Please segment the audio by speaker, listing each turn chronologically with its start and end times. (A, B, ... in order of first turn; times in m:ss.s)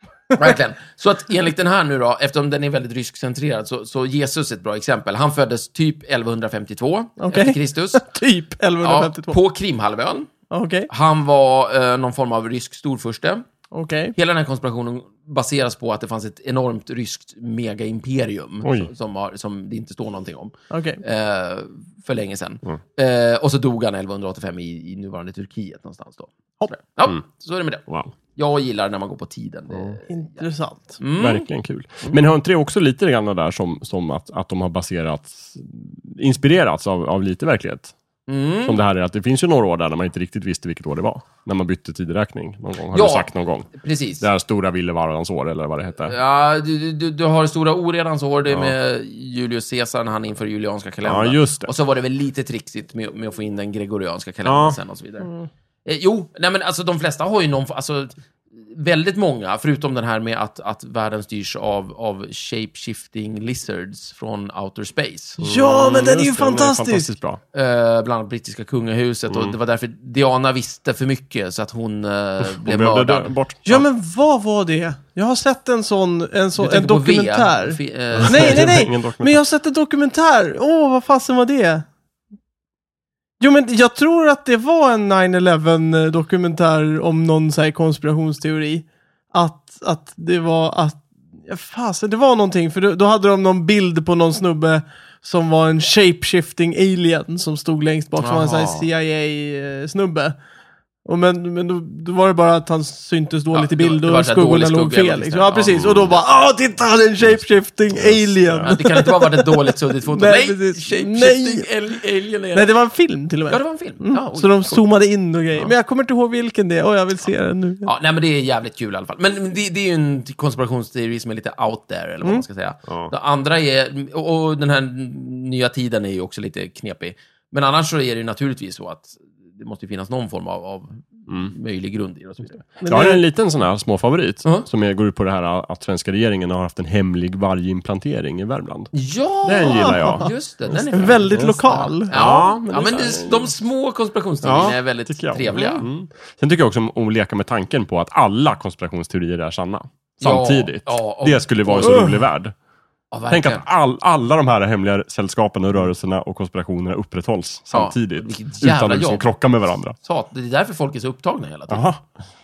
0:00.3-0:00.6 A
0:00.4-0:08.0 B
0:07.2-0:09.4 A
0:08.8-0:10.3 B
0:10.5-0:10.9 A
0:10.9-0:13.4 B
0:13.7-0:14.2 A
0:14.2-0:30.4 B
0:18.6-0:18.9 C
0:20.7-0:21.0 A
0:30.1-0:31.0 A
0:31.0-0:31.5 B
0:31.2-0:37.9 C
0:38.3-0:38.8 B
0:38.6-0:43.7 C
0:42.9-0:44.2 B
0:44.2-0:46.1 C
0:46.0-0:55.3 B
0:51.0-0:51.7 C
0:54.5-0:54.8 C
0:55.9-1:05.4 B
1:05.4-1:07.1 A
1:05.4-1:07.4 C
1:07.5-1:13.3 B
1:09.3-1:09.6 C
1:12.4-1:13.8 C
1:13.7-1:21.9 A
1:16.6-1:18.8 B
1:18.2-1:19.4 C
1:23.4-1:40.4 A
1:38.2-1:38.9 B
1:41.1-1:51.7 A
1:43.5-1:46.2 B
1:45.8-1:46.1 C
1:47.9-1:48.7 C
1:48.6-1:52.7 B
1:52.5-1:57.9 A
1:53.5-1:54.8 B
1:57.8-2:12.7 B
2:12.8-2:13.2 A
2:12.8-2:18.9 C
2:18.9-2:25.9 B
2:19.4-2:21.6 C
2:19.6-2:20.3 A
2:20.8-2:22.2 A
2:22.1-2:23.5 C
2:24.4-2:32.6 C
2:30.2-2:32.1 B
2:31.8-2:32.3 A
2:33.1-2:33.6 B
2:33.3-2:40.0 C
2:37.7-2:39.3 B
2:40.0-2:41.9 B
2:41.7-2:42.0 C